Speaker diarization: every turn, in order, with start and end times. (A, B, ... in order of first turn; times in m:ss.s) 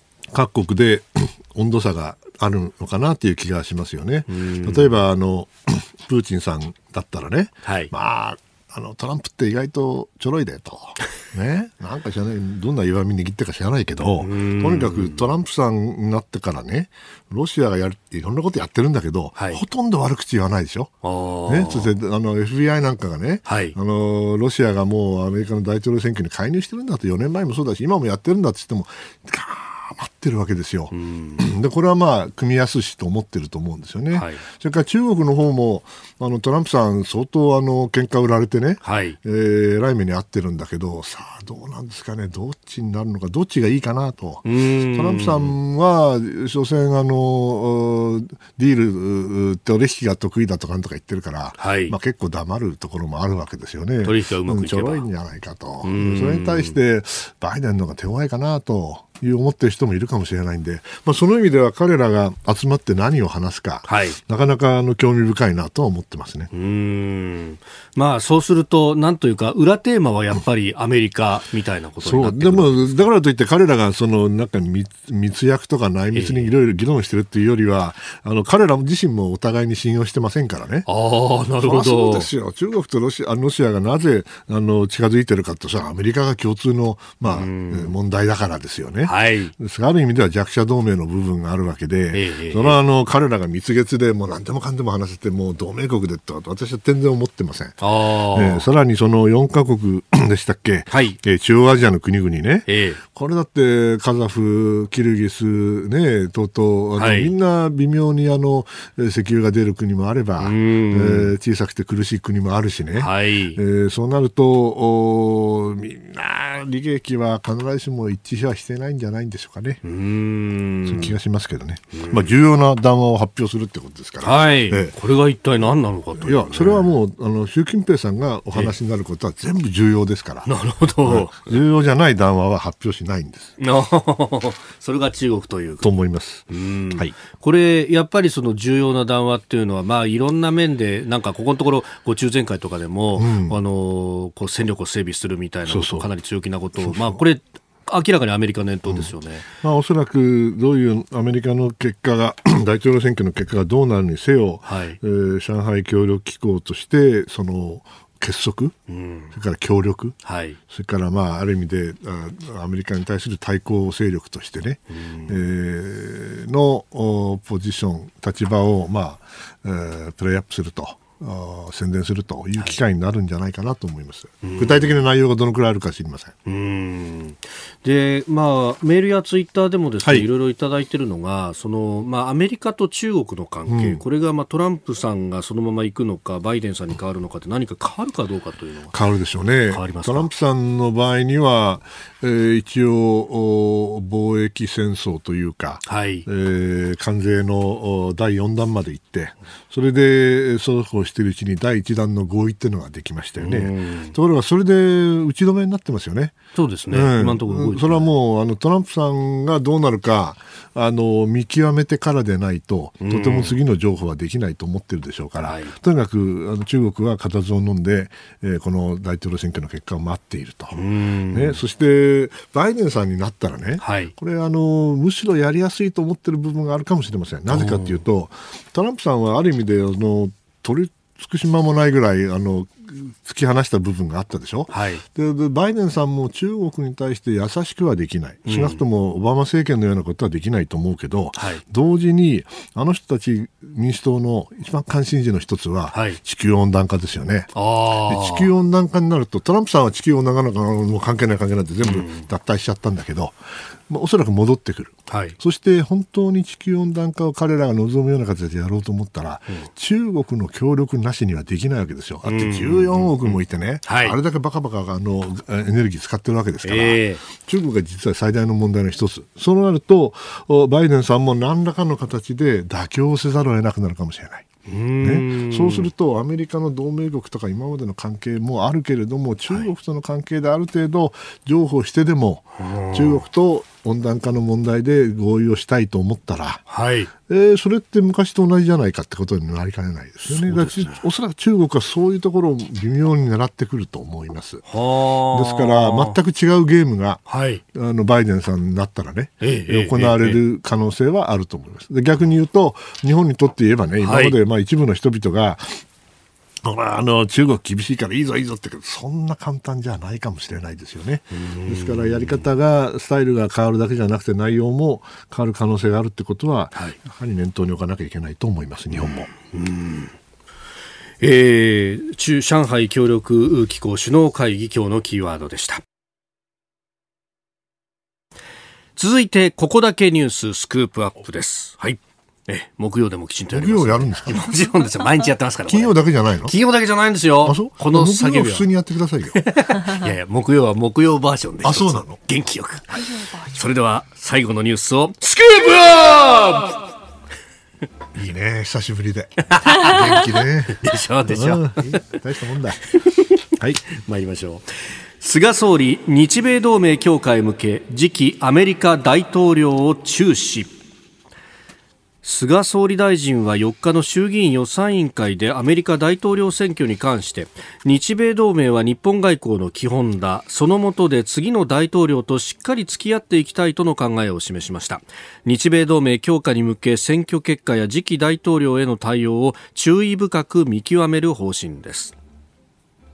0:00.3-0:20.9 A
0:04.3-0:05.0 B
0:07.6-0:07.9 B
0:14.2-0:15.2 B
0:19.4-0:19.6 B
0:21.0-0:21.9 B
0:21.5-1:06.5 A
0:23.4-0:23.8 B
0:30.9-0:31.4 B
0:34.1-0:34.4 B
0:38.8-0:39.2 B
0:44.4-0:45.5 B
0:51.6-0:51.9 B
0:54.0-0:55.0 B
0:55.8-0:56.8 B
1:03.8-1:04.2 B
1:06.5-1:13.0 B
1:12.0-1:20.9 A
1:16.1-1:16.5 B
1:20.8-1:22.3 B
1:21.6-1:59.8 A
1:27.2-1:27.9 B
1:29.0-1:29.5 B
1:32.1-1:32.8 B
1:37.8-1:38.6 B
1:40.9-1:41.2 B
1:42.7-1:43.0 B
1:47.0-1:47.3 B
1:50.4-1:51.3 B
1:53.0-1:53.6 B
1:59.8-2:01.2 B
2:00.8-2:04.9 A
2:01.9-2:02.4 B
2:04.2-2:06.9 B
2:06.2-2:10.5 A
2:10.4-2:11.6 B
2:11.0-2:13.6 A
2:13.6-2:15.9 B
2:15.8-2:17.1 A
2:16.5-2:29.5 B
2:23.2-2:23.6 A
2:25.7-2:26.1 A
2:26.8-2:27.2 A
2:28.9-2:38.8 A
2:34.6-2:35.0 B
2:38.9-2:39.3 B
2:39.3-2:56.3 A
2:40.2-2:40.6 B
2:44.9-2:45.4 B
2:54.4-2:54.9 B
2:56.4-3:09.0 B
3:03.7-3:04.0 A
3:08.9-4:07.5 A
3:09.7-3:10.3 B
3:15.8-3:16.2 B
3:23.4-3:24.2 B
3:26.5-3:28.1 B
3:33.0-3:33.5 B
3:35.4-3:35.7 B
3:40.7-3:41.6 B
3:43.8-3:44.1 B
3:47.5-3:48.0 B
3:54.7-3:55.0 B
3:58.4-3:58.8 B
4:01.4-4:01.6 B
4:05.9-4:06.2 B
4:07.5-4:08.5 B
4:08.0-4:13.4 A
4:11.8-4:12.3 B
4:13.9-4:34.5 A
4:15.1-4:15.4 B
4:22.2-4:24.2 B
4:26.6-4:27.2 B
4:34.7-4:35.9 B
4:35.0-4:46.6 A
4:42.6-4:43.2 B
4:46.7-4:47.1 B
4:47.2-4:54.6 A
4:50.3-4:51.0 B
4:54.6-4:56.2 B
4:55.3-5:05.8 A
4:57.3-4:57.6 B
4:59.4-5:00.4 B
5:04.0-5:04.4 B
5:06.6-5:19.3 A
5:11.3-5:12.4 B
5:19.0-5:20.1 B
5:21.2-5:25.8 B
5:29.0-5:38.7 B
5:33.5-5:34.5 A
5:35.7-5:36.5 A
5:37.4-5:39.4 A
5:39.3-5:46.9 B
5:41.6-5:42.2 A
5:48.1-5:52.8 A
5:49.5-5:50.2 B
5:50.8-5:52.0 B
5:53.9-6:00.7 B
6:02.2-6:22.1 B